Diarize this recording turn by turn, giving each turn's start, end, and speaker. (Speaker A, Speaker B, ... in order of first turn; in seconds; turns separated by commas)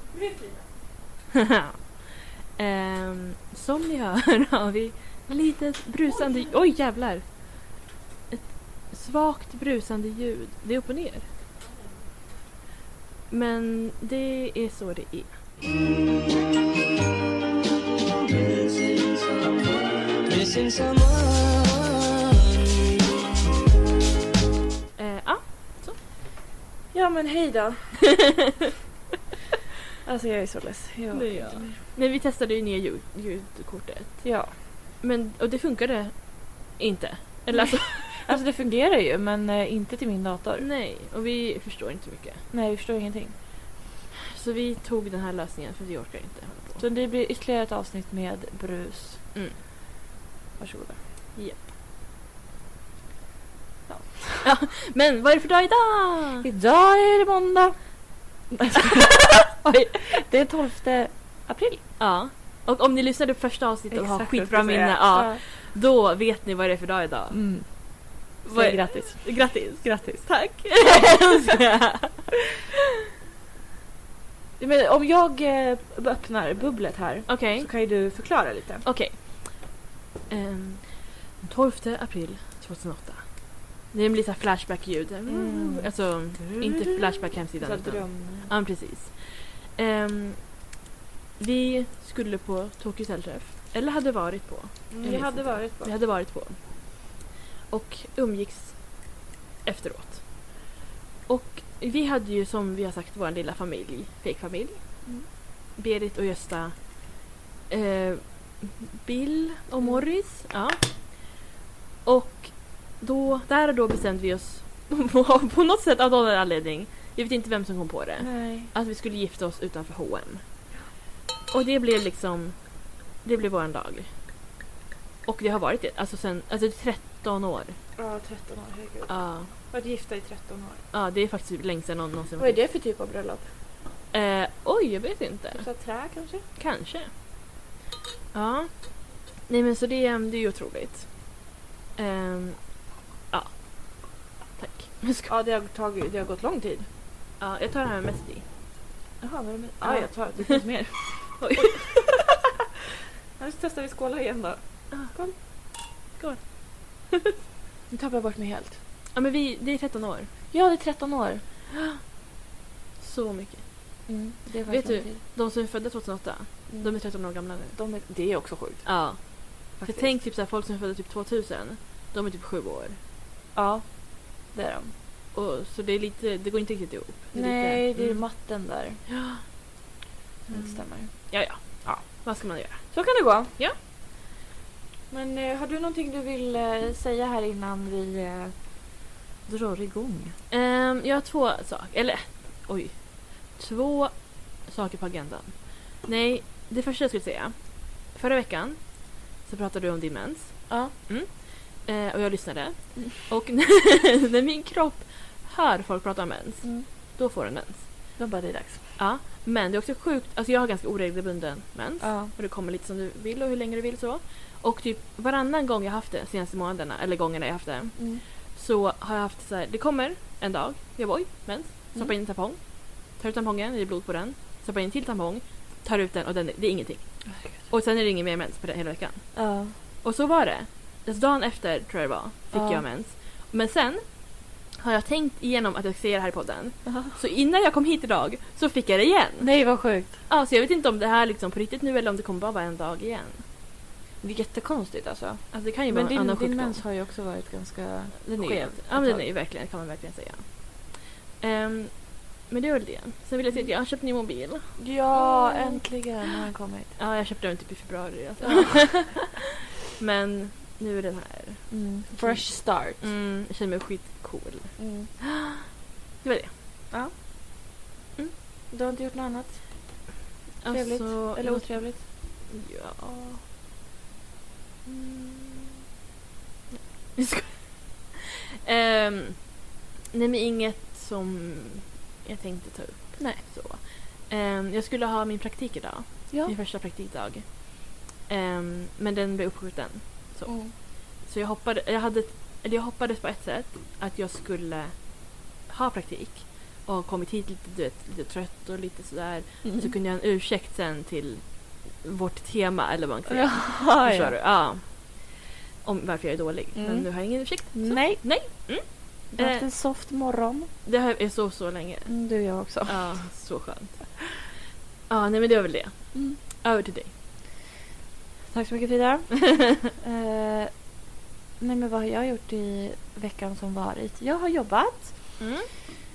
Speaker A: 0.1-0.6, Speaker B: 1.3-1.9, Speaker B: 2.5-7.4, Speaker A: 6.1-6.5, Speaker B: 8.3-11.3, Speaker B: 13.3-15.4, Speaker C: 18.1-22.9, Speaker B: 25.0-26.0, Speaker A: 26.9-28.0, Speaker A: 30.0-31.8, Speaker B: 31.1-38.4, Speaker A: 34.2-34.5, Speaker A: 37.5-40.7, Speaker B: 40.6-42.4, Speaker A: 42.5-43.3, Speaker B: 44.2-46.8, Speaker A: 46.8-49.2, Speaker A: 50.6-51.0, Speaker B: 51.4-51.7, Speaker A: 53.9-54.5, Speaker B: 54.4-56.5, Speaker A: 56.4-57.8, Speaker A: 58.5-61.8, Speaker B: 59.5-60.0, Speaker B: 62.0-67.4, Speaker A: 63.9-65.4, Speaker A: 67.3-71.0, Speaker B: 68.4-72.3, Speaker A: 74.6-78.8, Speaker B: 77.3-77.7, Speaker B: 78.8-79.7, Speaker B: 80.3-90.6, Speaker A: 85.3-88.5, Speaker B: 91.4-96.6, Speaker A: 95.0-95.9, Speaker B: 97.7-100.5, Speaker B: 101.3-105.1, Speaker B: 105.8-111.3, Speaker B: 112.0-120.4, Speaker A: 118.2-118.7, Speaker B: 121.5-124.1, Speaker B: 125.2-127.8, Speaker A: 128.0-130.8, Speaker B: 129.1-129.5, Speaker B: 130.9-132.6, Speaker A: 132.4-133.5, Speaker B: 134.1-135.7, Speaker A: 135.5-136.4, Speaker B: 136.6-137.1, Speaker B: 138.3-141.4, Speaker B: 141.9-145.3, Speaker A: 145.3-146.9, Speaker B: 147.4-148.4, Speaker A: 149.2-152.3, Speaker B: 149.8-150.7, Speaker B: 151.3-151.9, Speaker A: 153.4-155.3, Speaker B: 154.9-157.3, Speaker A: 157.9-158.8, Speaker B: 159.1-160.3, Speaker A: 160.5-161.4, Speaker B: 161.7-162.0, Speaker B: 163.0-164.1, Speaker A: 164.1-165.2, Speaker B: 164.7-167.8, Speaker A: 166.7-170.2, Speaker B: 168.8-173.0, Speaker A: 173.5-174.9, Speaker B: 175.3-178.3, Speaker A: 177.3-179.0, Speaker B: 179.1-179.4, Speaker B: 180.5-183.8, Speaker A: 180.5-183.5, Speaker A: 185.1-188.6, Speaker A: 189.4-190.4, Speaker B: 190.5-207.9, Speaker A: 200.7-200.9, Speaker A: 208.2-208.9, Speaker B: 209.0-229.4, Speaker A: 212.0-212.3, Speaker A: 218.0-218.2, Speaker A: 227.3-227.6, Speaker A: 229.3-229.7, Speaker B: 230.0-239.5, Speaker A: 232.5-232.8, Speaker A: 236.8-237.1, Speaker A: 239.4-240.2, Speaker B: 240.2-243.4, Speaker A: 244.2-249.3, Speaker B: 245.5-246.8, Speaker B: 248.2-255.8, Speaker A: 254.8-256.9, Speaker B: 257.0-265.5, Speaker A: 258.4-258.9, Speaker A: 261.7-263.0, Speaker A: 264.8-265.1, Speaker B: 266.2-266.5, Speaker A: 268.7-270.1, Speaker B: 270.6-273.4, Speaker A: 270.7-272.0, Speaker B: 274.9-275.7, Speaker B: 277.1-279.6, Speaker B: 280.1-309.7, Speaker A: 283.2-283.4, Speaker A: 290.4-290.7, Speaker A: 299.6-299.9, Speaker A: 303.3-304.4, Speaker A: 306.7-310.7, Speaker B: 310.8-312.2, Speaker A: 312.1-313.1, Speaker B: 312.9-314.5, Speaker B: 315.1-317.1, Speaker A: 316.1-316.4, Speaker A: 318.5-320.9, Speaker A: 321.6-325.4, Speaker B: 325.4-325.7